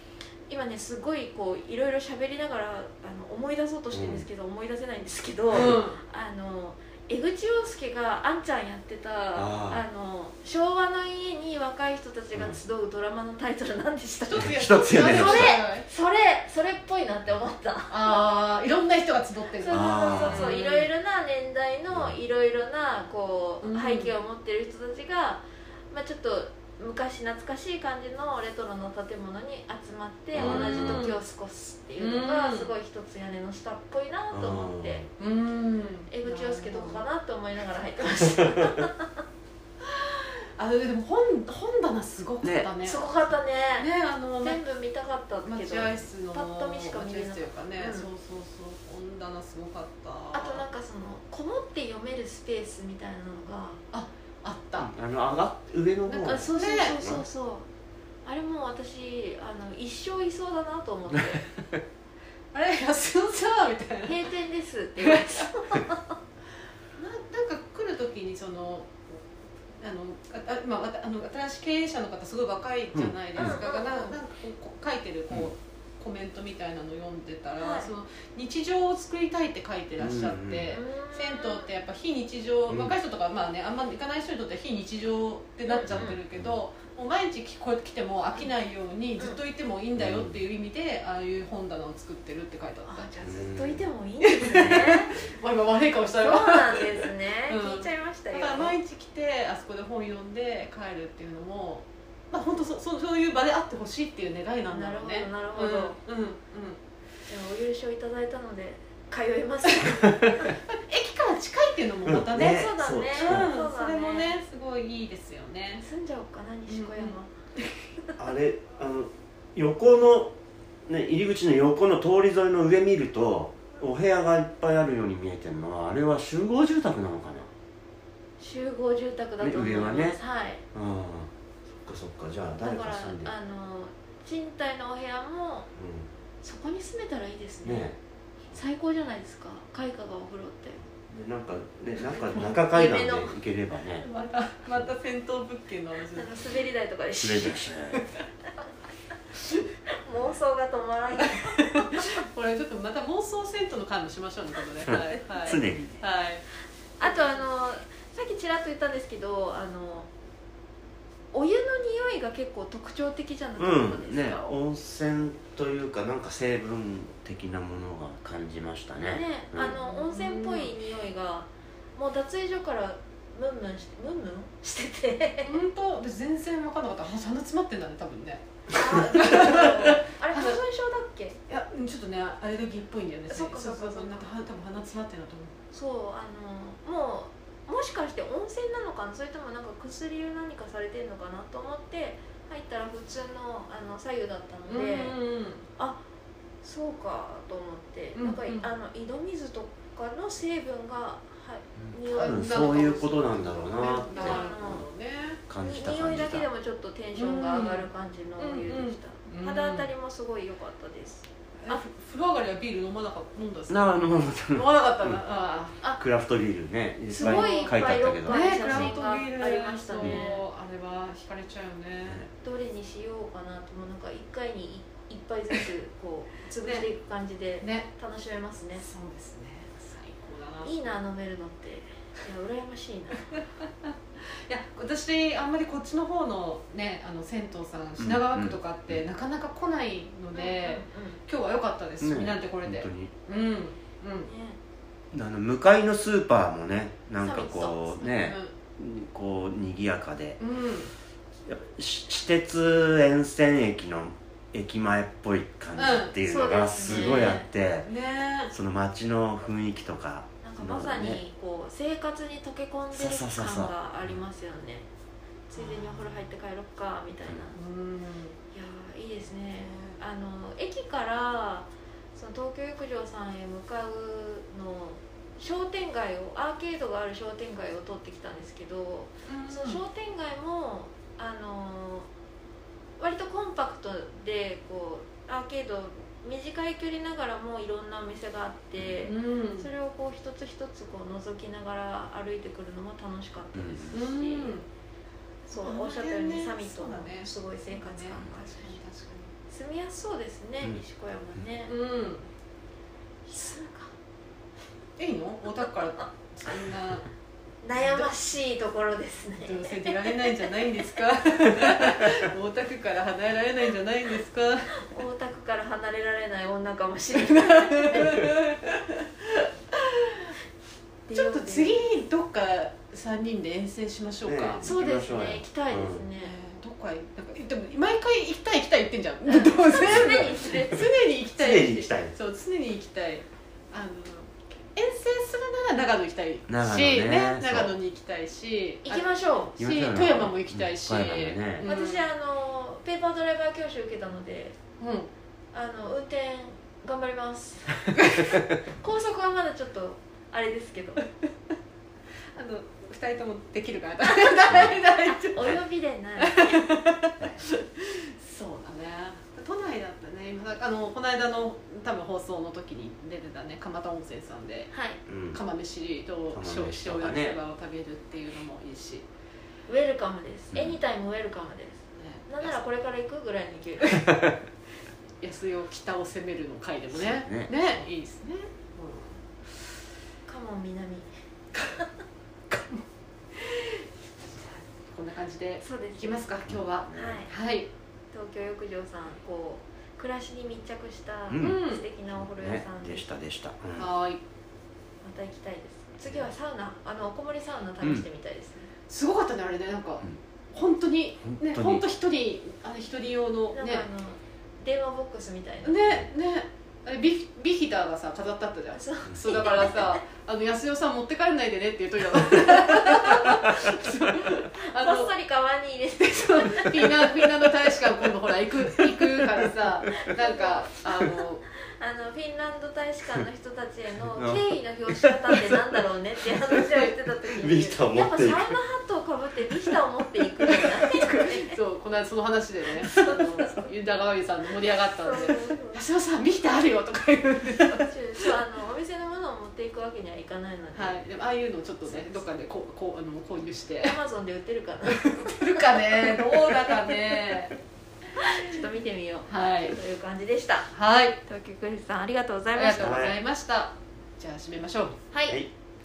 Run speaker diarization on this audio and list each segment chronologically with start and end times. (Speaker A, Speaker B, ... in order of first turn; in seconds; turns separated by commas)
Speaker A: 0.5-18.1, Speaker B: 3.9-4.2, Speaker C: 5.5-6.0, Speaker B: 9.3-9.8, Speaker B: 12.3-12.6, Speaker C: 14.2-15.9, Speaker B: 14.4-15.5, Speaker C: 17.9-20.9, Speaker A: 19.5-35.0, Speaker B: 19.7-20.6, Speaker B: 21.9-22.1, Speaker C: 23.6-24.1, Speaker B: 30.3-31.0, Speaker C: 30.3-31.2, Speaker C: 32.0-32.7, Speaker B: 34.3-35.1, Speaker C: 35.2-37.0, Speaker A: 36.1-39.1, Speaker C: 39.8-44.6, Speaker B: 42.4-42.7, Speaker A: 42.8-48.1, Speaker C: 45.4-50.6, Speaker A: 50.3-53.8, Speaker C: 53.9-54.9, Speaker B: 54.8-57.2, Speaker C: 56.1-57.0, Speaker A: 56.3-57.7, Speaker A: 58.2-61.5, Speaker C: 62.5-64.2, Speaker A: 64.0-66.1, Speaker C: 65.0-65.4, Speaker C: 67.0-68.9, Speaker C: 69.8-93.1, Speaker B: 72.9-73.6, Speaker A: 73.4-74.2, Speaker A: 77.6-77.9, Speaker B: 80.0-80.7, Speaker A: 80.7-81.7, Speaker B: 82.7-83.0, Speaker A: 85.7-86.2, Speaker B: 85.9-86.6, Speaker B: 90.0-90.4, Speaker A: 92.9-95.2, Speaker B: 93.2-93.8, Speaker C: 94.2-106.8, Speaker B: 94.5-95.0, Speaker A: 96.2-98.8, Speaker A: 104.7-106.0, Speaker A: 107.3-110.3, Speaker C: 110.4-115.8, Speaker B: 112.0-113.5, Speaker A: 112.3-114.4, Speaker A: 115.8-117.4, Speaker C: 116.7-117.2, Speaker B: 118.2-120.3, Speaker B: 120.9-127.5, Speaker A: 128.4-130.6, Speaker B: 129.4-130.2, Speaker B: 130.7-133.3, Speaker A: 132.6-135.7, Speaker B: 135.8-136.1, Speaker A: 136.4-137.9, Speaker B: 137.6-138.0, Speaker A: 138.5-140.8, Speaker B: 141.0-144.1, Speaker A: 142.1-143.3, Speaker C: 143.9-146.4, Speaker A: 146.1-147.6, Speaker B: 147.2-148.1, Speaker A: 149.9-152.1, Speaker C: 151.3-156.4, Speaker B: 154.9-156.0, Speaker A: 157.0-160.1, Speaker C: 157.0-157.4, Speaker A: 161.3-164.4, Speaker B: 163.6-169.8, Speaker A: 169.1-175.6, Speaker C: 169.8-170.8, Speaker C: 175.4-180.6, Speaker A: 178.7-181.4, Speaker C: 181.5-185.5, Speaker A: 183.3-184.3, Speaker A: 185.7-195.2, Speaker C: 194.7-195.6, Speaker A: 195.8-196.0, Speaker A: 196.6-203.0, Speaker C: 198.1-198.7, Speaker B: 201.9-204.5, Speaker C: 202.1-205.4, Speaker A: 204.1-204.8, Speaker B: 205.5-206.5, Speaker A: 205.6-211.8, Speaker C: 207.2-209.9, Speaker C: 211.6-215.8, Speaker B: 213.7-215.2, Speaker B: 215.9-219.0, Speaker A: 217.1-220.4, Speaker C: 217.2-222.3, Speaker A: 222.4-228.8, Speaker C: 226.6-226.9, Speaker C: 227.6-227.9, Speaker C: 228.8-230.9, Speaker A: 230.6-233.4, Speaker C: 233.6-233.9, Speaker C: 234.4-244.3, Speaker B: 238.0-239.0, Speaker A: 240.3-241.2, Speaker B: 242.0-243.1, Speaker A: 244.2-244.6, Speaker B: 245.1-250.4, Speaker A: 247.2-248.2, Speaker C: 248.1-248.5, Speaker C: 250.4-250.9, Speaker B: 251.4-257.9, Speaker C: 255.8-256.1, Speaker A: 256.2-257.5, Speaker C: 256.8-258.5, Speaker B: 258.5-261.2, Speaker A: 260.4-264.9, Speaker B: 262.9-263.7, Speaker A: 265.5-267.6, Speaker C: 265.5-266.3, Speaker C: 267.5-268.4, Speaker A: 268.5-282.1, Speaker C: 269.6-270.0, Speaker C: 279.3-279.8, Speaker A: 283.0-294.6, Speaker B: 288.8-289.0, Speaker C: 289.0-289.7, Speaker B: 293.5-294.0, Speaker C: 293.9-294.7, Speaker A: 295.5-298.8, Speaker C: 295.5-299.3, Speaker A: 299.5-301.7, Speaker C: 301.7-302.2, Speaker A: 303.3-303.9, Speaker C: 303.3-303.6, Speaker C: 305.0-307.1, Speaker A: 307.6-310.3, Speaker C: 307.7-308.1, Speaker C: 309.4-314.8, Speaker A: 314.8-318.3, Speaker C: 317.1-320.3, Speaker A: 321.1-321.9, Speaker C: 321.1-324.6, Speaker B: 324.2-326.1, Speaker A: 324.6-326.4, Speaker C: 326.2-339.1, Speaker A: 329.2-330.9, Speaker B: 329.8-330.4, Speaker B: 331.4-332.1, Speaker B: 336.5-337.7, Speaker A: 338.8-339.6, Speaker B: 339.6-341.7, Speaker C: 339.6-342.1, Speaker A: 341.6-344.6, Speaker C: 344.8-345.1, Speaker A: 345.5-347.8, Speaker C: 348.0-348.2, Speaker A: 348.6-351.1, Speaker C: 352.4-355.6, Speaker A: 355.1-356.6, Speaker C: 356.2-364.7, Speaker A: 364.7-365.0, Speaker B: 365.1-365.4, Speaker C: 365.3-369.0, Speaker B: 366.3-367.4, Speaker A: 369.7-374.1, Speaker B: 370.5-370.8, Speaker C: 371.9-372.5, Speaker C: 375.2-379.2, Speaker B: 376.9-377.9, Speaker A: 380.2-381.1, Speaker C: 381.5-381.8, Speaker C: 382.5-382.8, Speaker C: 383.3-383.8, Speaker C: 384.3-387.7, Speaker A: 385.6-386.4, Speaker B: 386.5-387.2, Speaker A: 386.9-387.3, Speaker A: 388.1-393.1, Speaker B: 391.3-391.6, Speaker C: 391.4-391.8, Speaker B: 392.1-393.9, Speaker C: 393.8-394.2, Speaker A: 395.0-398.7, Speaker B: 397.8-398.1, Speaker C: 398.9-403.9, Speaker B: 401.2-401.8, Speaker A: 403.5-406.0, Speaker C: 405.6-415.1, Speaker A: 408.7-410.0, Speaker B: 409.1-409.4, Speaker A: 414.6-417.1, Speaker C: 416.0-421.4, Speaker A: 419.9-421.1, Speaker A: 421.7-431.5, Speaker B: 424.1-425.4, Speaker C: 426.5-426.9, Speaker B: 427.4-428.5, Speaker C: 430.4-438.4, Speaker A: 432.8-433.7, Speaker A: 435.0-435.8, Speaker A: 437.7-441.0, Speaker C: 440.7-444.0, Speaker A: 441.9-442.2, Speaker A: 443.8-446.7, Speaker C: 444.8-447.5, Speaker A: 448.2-450.7, Speaker C: 449.3-449.8, Speaker C: 450.7-451.2, Speaker A: 451.2-453.1, Speaker C: 452.5-455.0, Speaker B: 452.7-453.2, Speaker A: 455.1-455.4